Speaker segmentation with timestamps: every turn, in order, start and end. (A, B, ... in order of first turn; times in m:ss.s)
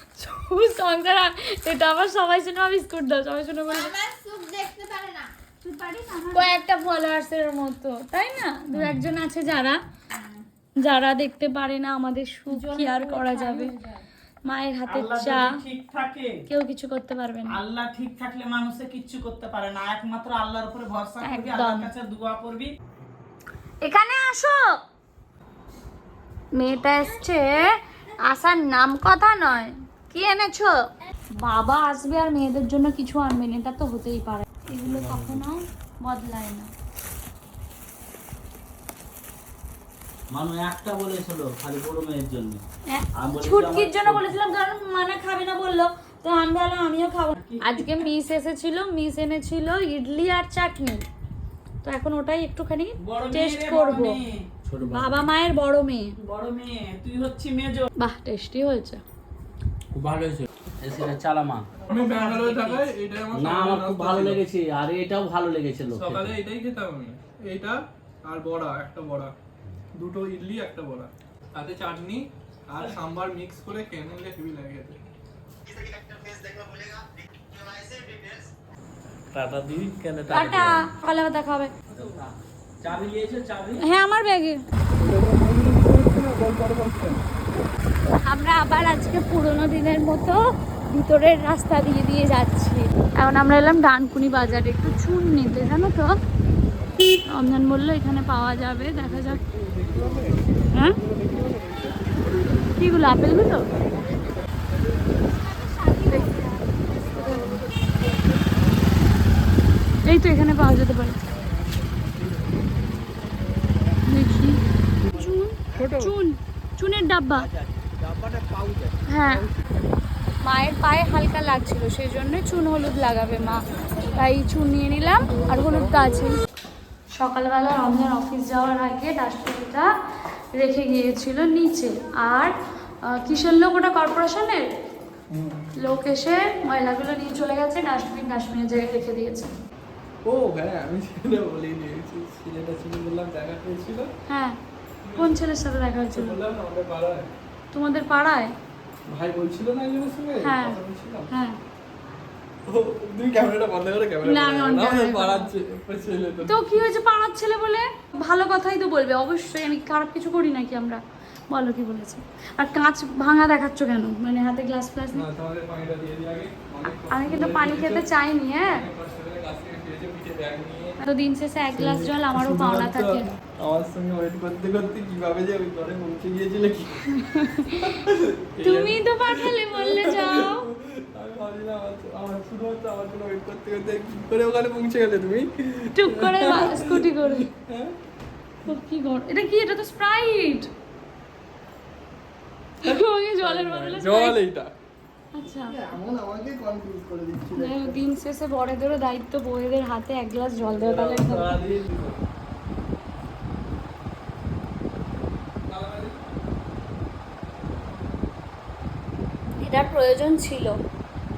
0:00.2-0:04.0 A
0:03.7-0:06.5 B
0:06.3-0:09.8 A
0:10.8-0:13.7 A
0:12.5-0:14.0 B
0:14.4-0:15.5 A
0:14.9-0:16.3 C
0:16.5-0:17.6 A
0:17.5-0:22.7 C
0:21.2-0:21.9 A
0:23.8-0:24.8 A
0:26.5-0:36.7 A
0:34.8-0:35.4 D
0:40.3-0:42.6 D
0:42.9-0:51.0 A
0:43.2-0:44.3 D
0:47.4-0:47.9 C
0:51.8-0:54.2 A
0:53.0-0:54.5 C
0:54.6-0:55.3 D
0:54.8-0:56.1 A
0:56.2-0:57.9 C
0:58.0-0:59.0 A
0:59.9-1:01.7 D
1:01.9-1:02.9 C
1:01.9-1:04.4 E
1:03.3-1:06.4 D
1:06.0-1:09.3 E
1:09.9-1:15.0 E
1:16.1-1:16.8 D
1:17.6-1:18.3 D
1:19.3-1:20.9 D
1:20.3-1:21.7 A
1:21.9-1:23.8 D
1:23.8-1:24.6 A
1:24.9-1:27.2 E
1:28.1-1:36.1 A
1:37.2-1:39.4 A
1:38.8-1:42.8 E
1:40.7-1:41.0 A
1:42.8-1:43.7 A
1:43.7-1:45.0 E
1:45.4-1:47.1 B
1:46.0-1:46.4 A
1:47.0-1:48.8 E
1:47.0-1:47.6 A
1:50.0-1:51.2 A
1:51.3-1:53.5 E
1:54.0-1:57.5 A
1:55.8-1:56.1 E
1:57.6-1:58.9 D
1:59.1-1:59.4 A
2:00.4-2:06.4 A
2:05.4-2:06.1 E
2:07.1-2:09.9 A
2:10.5-2:14.7 A
2:15.3-2:15.7 E
2:15.8-2:19.5 A
2:20.2-2:24.1 E
2:24.3-2:24.6 A
2:25.0-2:25.4 E
2:25.2-2:26.4 A
2:26.1-2:27.3 E
2:27.7-2:28.5 A
2:29.1-2:31.3 E
2:30.4-2:30.8 A
2:31.3-2:31.6 A
2:32.6-2:36.8 E
2:34.2-2:35.5 A
2:36.4-2:45.3 A
2:45.1-2:48.1 E
2:46.8-2:48.8 A
2:48.6-2:51.0 E
2:51.0-2:53.3 A
2:51.7-2:57.1 E
2:57.1-2:58.0 A
2:57.8-3:08.0 E
2:58.6-3:00.6 A
3:05.9-3:07.5 A
3:08.6-3:10.7 A
3:12.8-3:14.4 A
3:12.8-3:14.7 E
3:15.3-3:15.8 A
3:15.7-3:18.0 E
3:17.5-3:21.6 A
3:20.6-3:22.2 E
3:25.7-3:26.2 E
3:29.6-3:30.8 A